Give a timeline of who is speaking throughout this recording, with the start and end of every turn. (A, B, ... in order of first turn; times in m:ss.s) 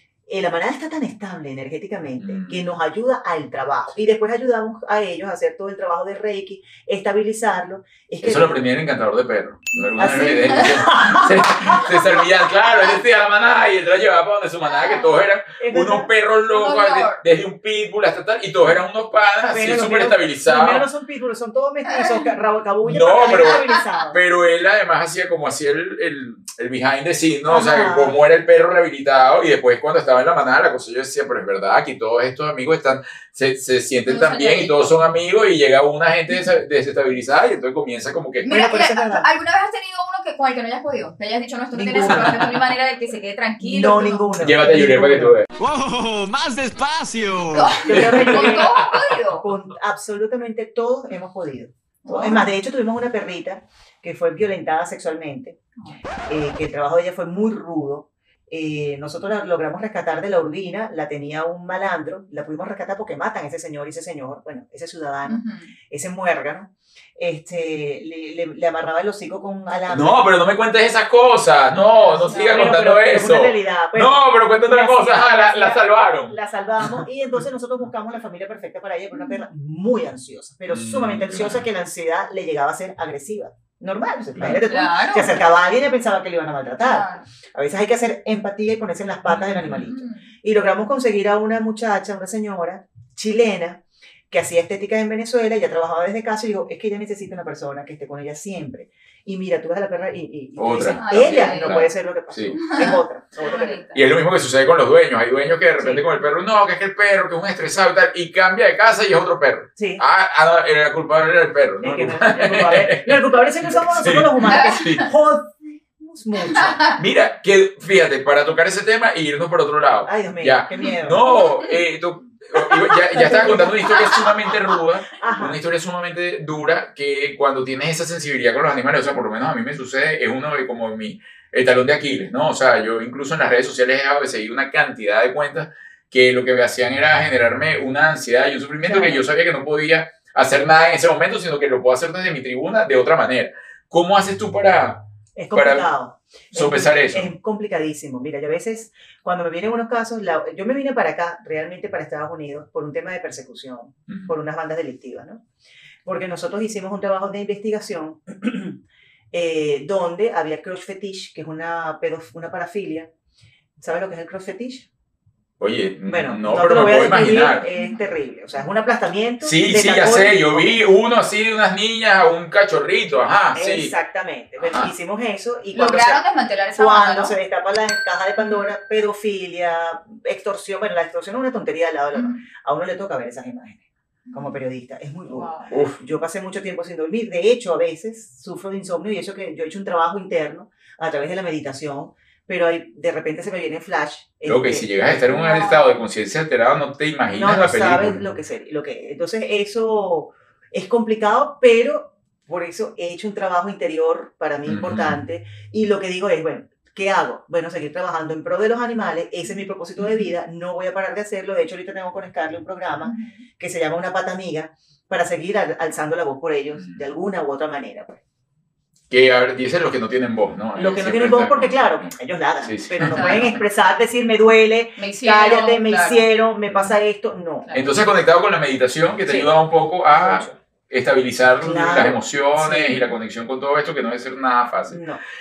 0:00.3-0:08.6 A
0:02.2-0:02.6 B
0:08.2-0:20.9 B
0:10.0-0:12.0 A
0:10.0-0:10.6 C
0:14.8-0:15.1 C
0:15.6-0:16.1 A
0:16.5-0:17.2 C
0:19.5-0:24.2 A
0:21.9-0:22.1 C
0:22.8-0:38.5 B
0:27.5-0:28.2 A
0:34.1-0:34.9 C
0:38.4-0:44.3 C
0:38.5-0:39.2 A
0:41.7-0:42.6 A
0:43.6-0:45.4 A
0:44.4-0:45.5 B
0:45.6-0:47.8 D
0:47.5-0:49.5 C
0:47.8-0:55.6 A
0:47.9-0:48.8 B
0:52.0-0:52.5 C
0:56.3-1:10.2 A
1:05.2-1:05.7 C
1:09.9-1:17.0 B
1:11.9-1:12.7 C
1:12.3-1:43.8 A
1:20.7-1:21.7 B
1:24.6-1:25.4 C
1:26.8-1:27.2 C
1:29.3-1:29.9 B
1:29.9-1:30.2 C
1:40.6-1:42.6 B
1:41.0-1:41.8 C
1:42.6-1:44.0 C
1:43.9-1:55.1 B
1:45.8-1:46.0 A
1:49.8-1:50.0 A
1:51.8-1:56.8 A
1:54.5-1:55.0 C
1:56.5-1:57.0 C
1:57.0-2:25.9 B
2:00.0-2:01.2 A
2:03.1-2:04.3 A
2:05.1-2:05.6 A
2:18.8-2:19.2 A
2:25.4-2:35.4 A
2:26.5-2:27.3 B
2:34.1-2:34.3 B
2:36.0-2:38.8 A
2:39.3-2:43.1 A
2:43.8-2:44.9 A
2:45.6-2:47.7 B
2:46.1-2:50.8 A
2:49.4-2:53.9 B
2:53.5-2:56.2 A
2:54.6-2:54.9 B
2:55.7-2:57.3 C
2:56.7-3:14.9 A
2:58.4-2:58.7 C
3:02.1-3:02.4 C
3:04.3-3:04.5 C
3:05.3-3:05.7 C
3:05.7-3:06.0 B
3:14.5-3:18.2 B
3:15.3-3:16.0 C
3:17.3-3:38.2 A
3:24.7-3:25.2 B
3:33.0-3:33.4 C
3:36.8-3:37.0 B
3:39.1-3:43.6 B
3:40.8-3:47.7 A
3:43.1-3:43.5 C
3:45.0-3:46.2 C
3:47.6-3:47.9 C
3:47.7-3:55.0 B
3:50.1-3:50.6 A
3:51.6-3:53.1 A
3:54.9-3:55.2 A